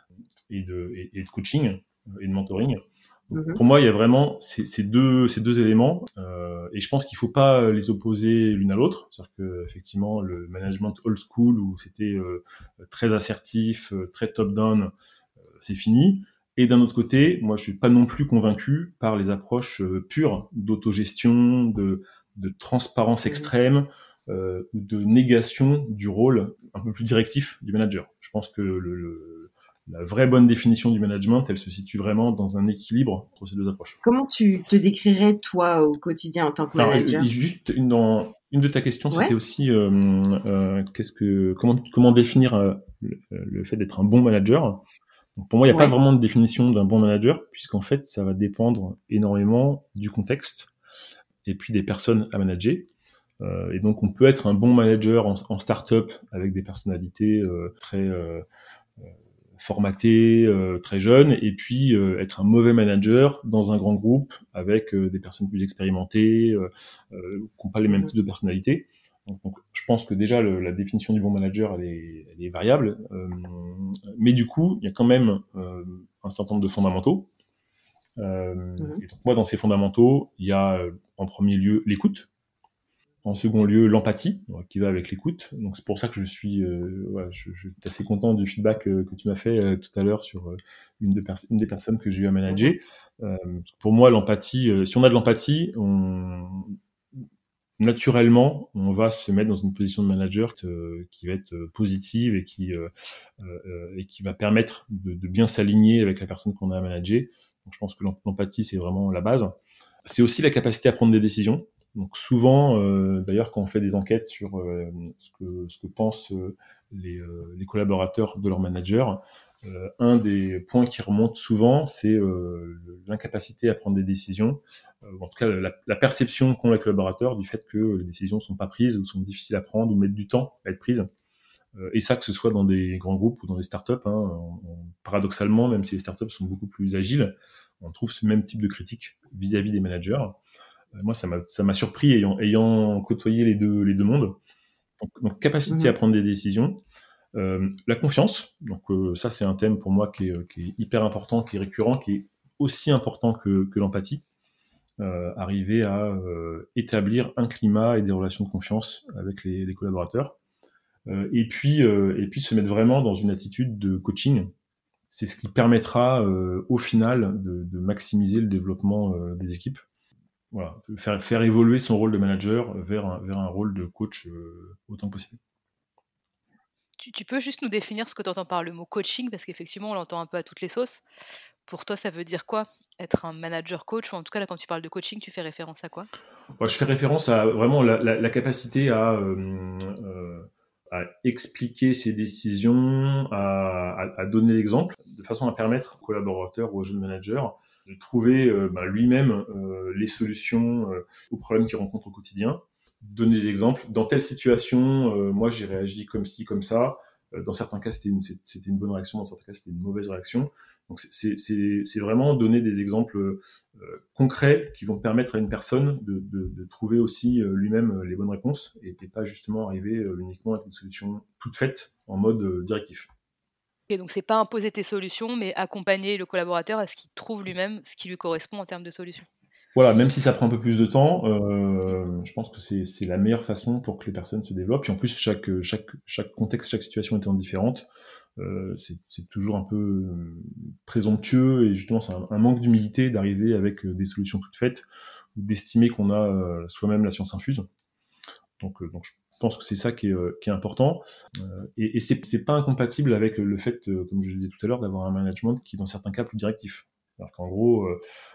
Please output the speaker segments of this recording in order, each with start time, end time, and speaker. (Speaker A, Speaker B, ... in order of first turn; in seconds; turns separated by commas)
Speaker A: 0.5-14.9, Speaker B: 3.3-3.6, Speaker A: 15.6-34.0, Speaker B: 34.0-37.3, Speaker A: 36.8-44.8, Speaker A: 45.4-50.7, Speaker A: 51.4-58.4, Speaker A: 59.0-77.3, Speaker A: 78.2-82.3, Speaker A: 83.2-96.8, Speaker A: 97.8-131.1, Speaker A: 131.8-140.3, Speaker A: 140.9-144.4, Speaker A: 145.0-146.8, Speaker B: 145.7-145.9, Speaker A: 147.3-154.2, Speaker A: 155.0-160.3, Speaker A: 161.1-164.5, Speaker A: 165.1-169.8, Speaker A: 170.5-175.4, Speaker C: 177.0-181.0, Speaker C: 181.7-186.1, Speaker A: 186.6-223.1, Speaker C: 223.9-229.3, Speaker A: 229.7-244.8, Speaker A: 245.3-247.7, Speaker A: 248.6-258.0